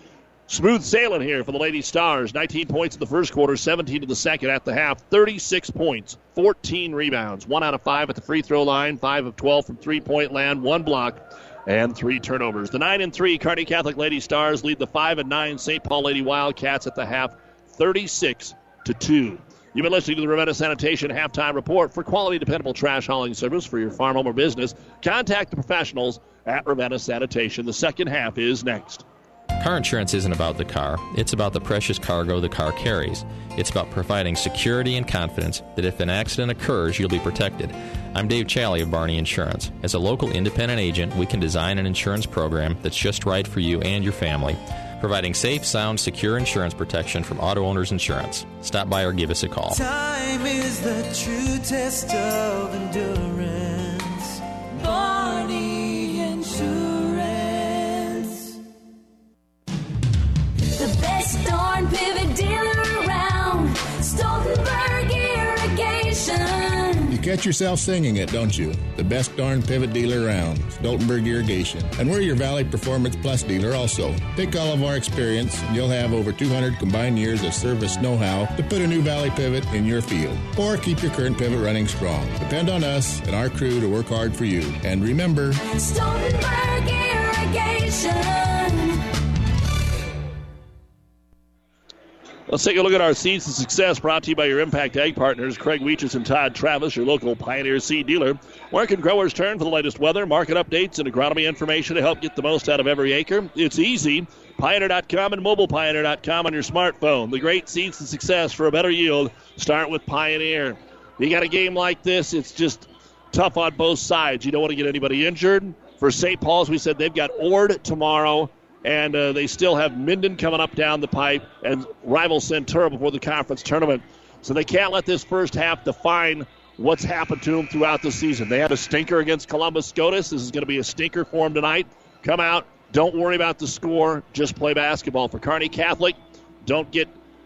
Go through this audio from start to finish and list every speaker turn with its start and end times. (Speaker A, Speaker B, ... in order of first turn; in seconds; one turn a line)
Speaker A: 0.5-29.1
Speaker B: 29.6-49.8
Speaker C: 49.7-58.6
Speaker D: 60.7-67.2
Speaker E: 67.1-85.6
Speaker D: 85.7-89.0
Speaker A: 92.5-137.1